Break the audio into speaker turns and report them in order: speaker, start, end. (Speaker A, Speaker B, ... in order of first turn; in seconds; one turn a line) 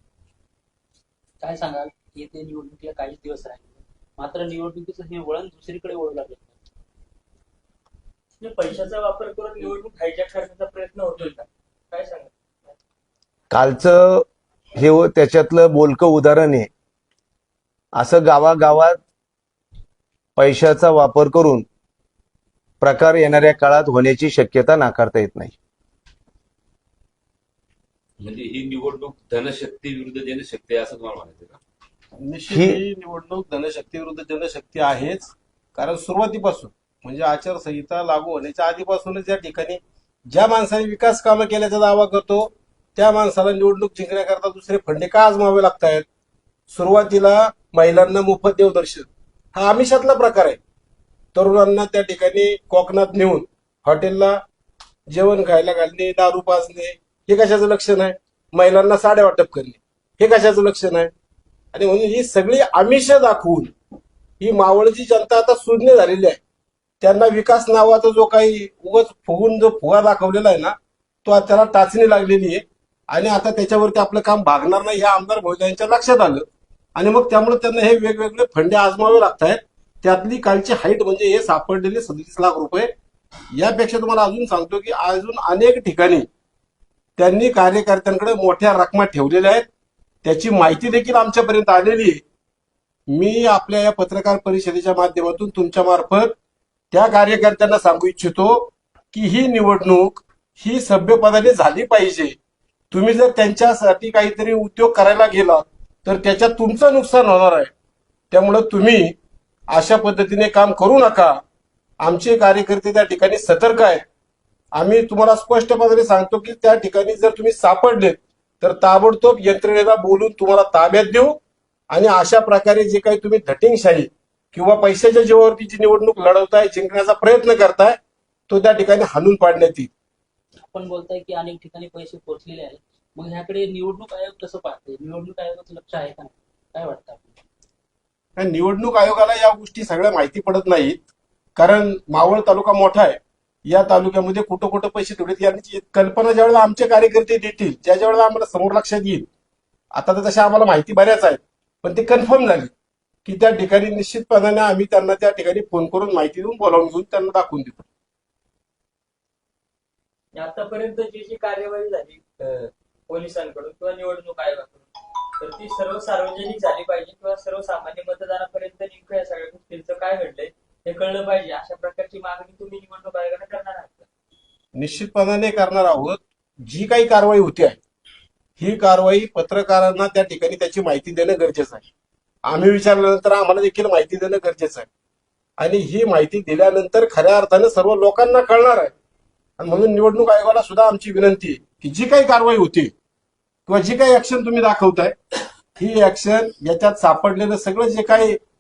Speaker A: 1.4-6.5
Speaker B: 8.4-12.3
Speaker C: 13.5-16.7
Speaker C: 18.0-19.0
Speaker C: 20.4-21.6
Speaker C: 22.8-25.5
Speaker D: 28.2-31.6
Speaker E: 32.2-46.1
Speaker C: 32.5-32.8
Speaker E: 46.7-50.6
Speaker E: 51.4-54.4
Speaker E: 55.1-61.1
Speaker E: 61.7-63.7
Speaker E: 64.4-66.4
Speaker E: 67.0-82.9
Speaker E: 83.5-86.3
Speaker E: 87.2-89.7
Speaker E: 90.2-92.2
Speaker E: 93.1-96.4
Speaker E: 96.9-102.4
Speaker E: 102.9-107.7
Speaker E: 108.3-109.2
Speaker E: 109.7-111.4
Speaker E: 112.0-114.0
Speaker E: 114.8-121.4
Speaker E: 121.9-128.0
Speaker E: 128.5-129.9
Speaker A: 130.6-137.3
Speaker E: 138.4-149.3
Speaker E: 149.9-152.7
Speaker E: 153.2-157.8
Speaker B: 160.3-164.9
Speaker B: 165.4-174.1
Speaker E: 174.8-177.8
Speaker E: 178.6-181.8
Speaker E: 182.5-184.9
Speaker E: 185.6-188.9
Speaker E: 189.6-192.9
Speaker E: 193.7-195.2
Speaker E: 195.8-198.4